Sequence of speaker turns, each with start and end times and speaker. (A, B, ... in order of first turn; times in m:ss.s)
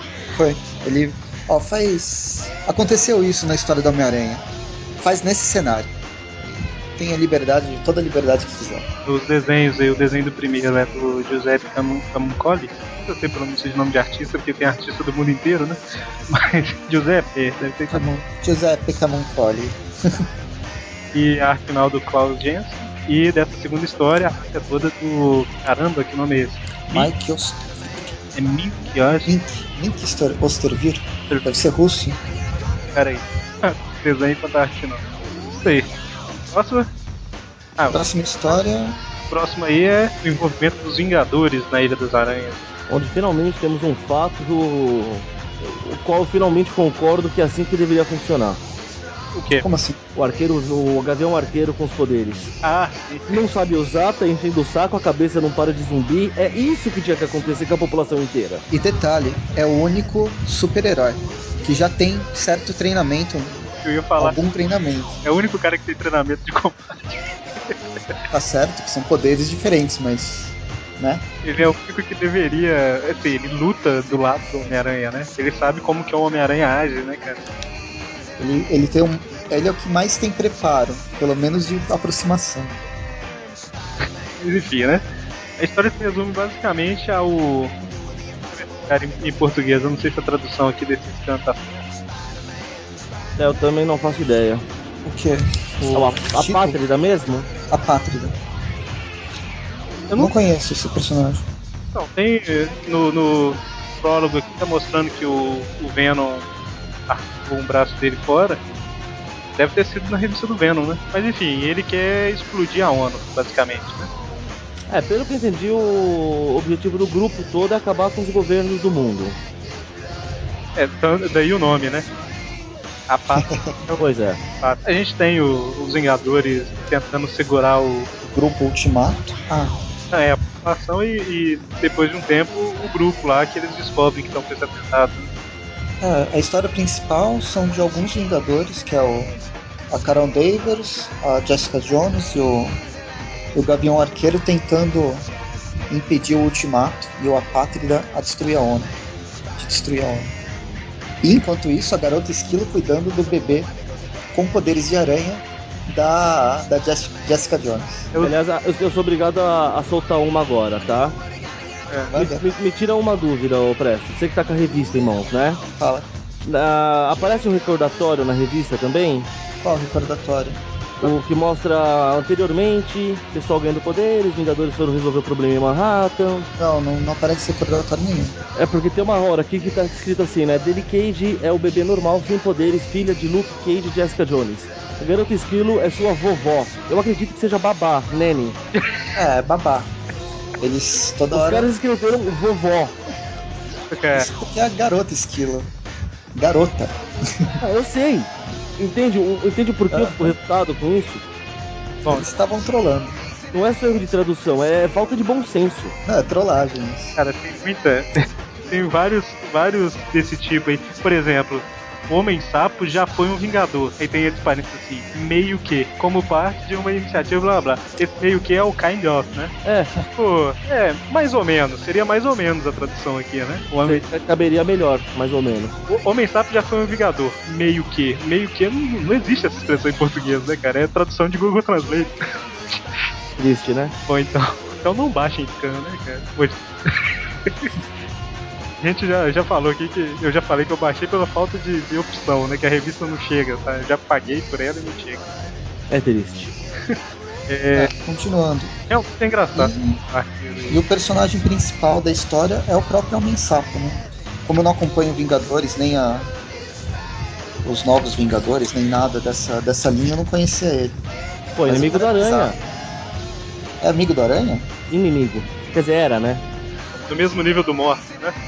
0:00.3-0:04.4 A
0:05.0-0:08.8 A
0:09.1-0:15.8 B
0:16.3-0:18.1 B
0:17.9-0:20.2 A
0:21.1-0:27.1 B
0:26.9-0:28.1 A
0:28.3-0:29.3 B
0:29.3-0:32.2 A
0:32.9-0:35.0 B
0:35.6-0:35.9 B
0:36.5-0:36.9 B
0:37.8-0:38.6 B
0:37.9-0:39.0 A
0:39.3-0:42.7 B
0:42.9-0:48.6 C
0:49.3-0:49.6 B
0:49.6-0:50.0 A
0:50.2-0:52.5 C
0:52.6-0:53.3 B
0:53.3-0:58.6 C
0:58.7-1:05.2 A
1:03.8-1:04.4 B
1:05.2-1:08.2 B
1:08.3-1:11.2 A
1:11.4-1:17.4 B
1:18.4-1:22.8 A
1:24.0-1:25.0 B
1:25.6-1:27.8 B
1:28.5-1:31.8 B
1:33.4-1:34.6 C
1:35.0-1:36.8 A
1:35.9-1:37.5 C
1:37.7-1:38.4 A
1:40.2-1:41.5 A
1:41.9-1:46.5 B
1:47.1-1:48.6 B
1:49.6-1:54.1 B
1:54.9-1:59.4 C
2:00.8-2:02.1 B
2:03.1-2:08.1 B
2:03.3-2:03.8 A
2:04.0-2:04.4 C
2:08.2-2:09.8 A
2:10.1-2:15.3 B
2:16.0-2:19.3 A
2:19.9-2:22.8 A
2:23.5-2:25.3 A
2:25.9-2:28.9 A
2:29.6-2:30.3 A
2:31.2-2:33.7 A
2:34.3-2:38.1 A
2:38.2-2:41.2 C
2:42.1-2:42.5 A
2:42.1-2:45.6 C
2:45.8-2:46.1 A
2:46.4-2:49.3 C
2:49.6-2:50.6 A
2:51.0-2:56.5 C
2:56.6-2:58.4 A
2:58.6-3:08.6 C
3:09.2-3:09.9 A
3:10.6-3:11.7 A
3:11.3-3:13.0 C
3:13.9-3:14.3 B
3:14.1-3:15.7 A
3:16.4-3:17.6 A
3:17.6-3:21.2 C
3:19.9-3:20.3 A
3:22.0-3:23.2 A
3:23.5-3:26.0 C
3:26.0-3:27.2 A
3:27.2-3:39.6 B
3:39.6-3:39.9 C
3:40.1-3:44.0 B
3:43.9-3:45.8 C
3:45.9-3:52.1 B
3:53.4-3:54.0 C
3:54.1-3:57.7 B
3:58.8-4:05.2 B
4:05.9-4:06.5 C
4:07.5-4:07.9 B
4:07.8-4:08.8 A
4:08.9-4:10.8 B
4:09.6-4:10.0 A
4:10.7-4:16.3 A
4:17.6-4:21.0 A
4:21.6-4:22.6 C
4:21.7-4:22.7 A
4:23.8-4:24.7 A
4:24.9-4:26.4 C
4:27.1-4:28.4 B